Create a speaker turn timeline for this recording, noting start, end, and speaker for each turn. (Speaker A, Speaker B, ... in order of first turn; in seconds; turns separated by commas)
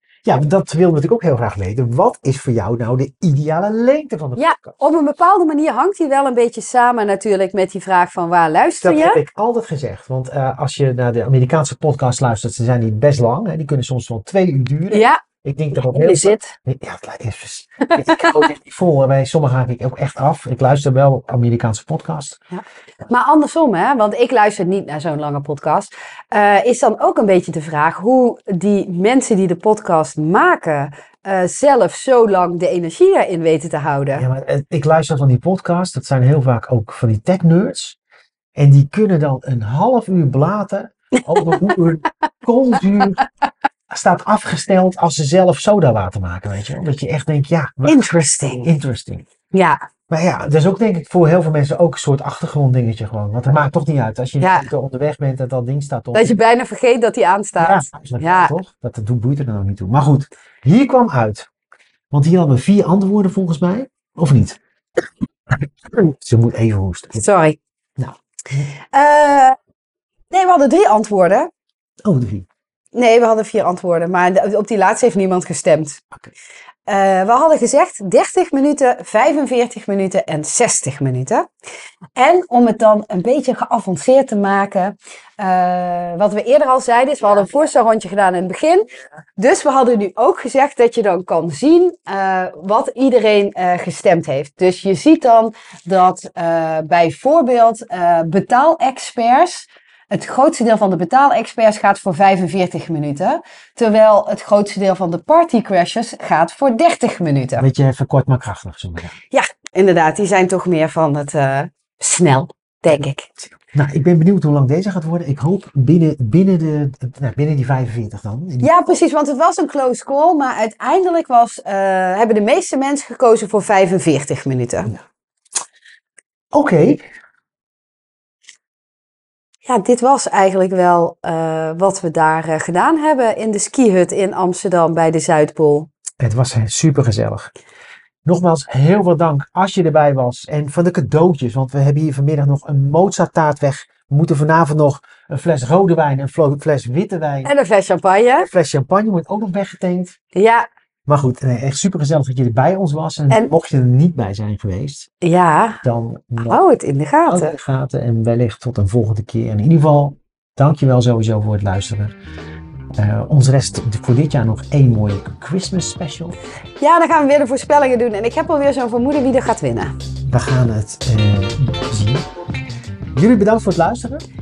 Speaker A: 0.2-4.8, Speaker B: 4.4-9.2, Speaker A: 8.8-22.4, Speaker B: 14.9-15.2, Speaker B: 15.7-16.5, Speaker B: 17.9-18.4, Speaker B: 22.5-34.3, Speaker A: 34.1-38.0, Speaker A: 38.5-43.2, Speaker B: 41.1-41.7, Speaker A: 43.9-49.2, Speaker B: 47.9-48.7, Speaker B: 49.5-49.8, Speaker A: 50.1-56.4, Speaker B: 54.4-54.7, Speaker B: 56.1-58.5, Speaker A: 57.6-61.5, Speaker A: 62.1-64.6, Speaker A: 65.5-67.2, Speaker B: 67.2-67.6, Speaker A: 68.0-68.7, Speaker B: 68.9-69.6, Speaker B: 70.3-71.5, Speaker A: 72.0-72.5, Speaker B: 72.9-76.0, Speaker B: 76.9-81.5, Speaker B: 82.2-107.6, Speaker A: 107.6-109.2, Speaker B: 109.3-113.3, Speaker A: 113.5-118.7, Speaker B: 118.6-124.9, Speaker A: 126.5-127.1, Speaker B: 129.7-135.9, Speaker A: 136.2-137.5, Speaker A: 138.2-147.5, Speaker B: 147.4-148.5, Speaker A: 148.4-150.2, Speaker B: 150.3-150.7, Speaker A: 151.1-155.1, Speaker B: 155.2-155.8, Speaker A: 155.8-156.6, Speaker B: 156.4-157.6, Speaker A: 157.2-162.1, Speaker A: 162.9-166.4, Speaker B: 166.8-169.9, Speaker A: 170.2-172.3, Speaker A: 173.1-174.2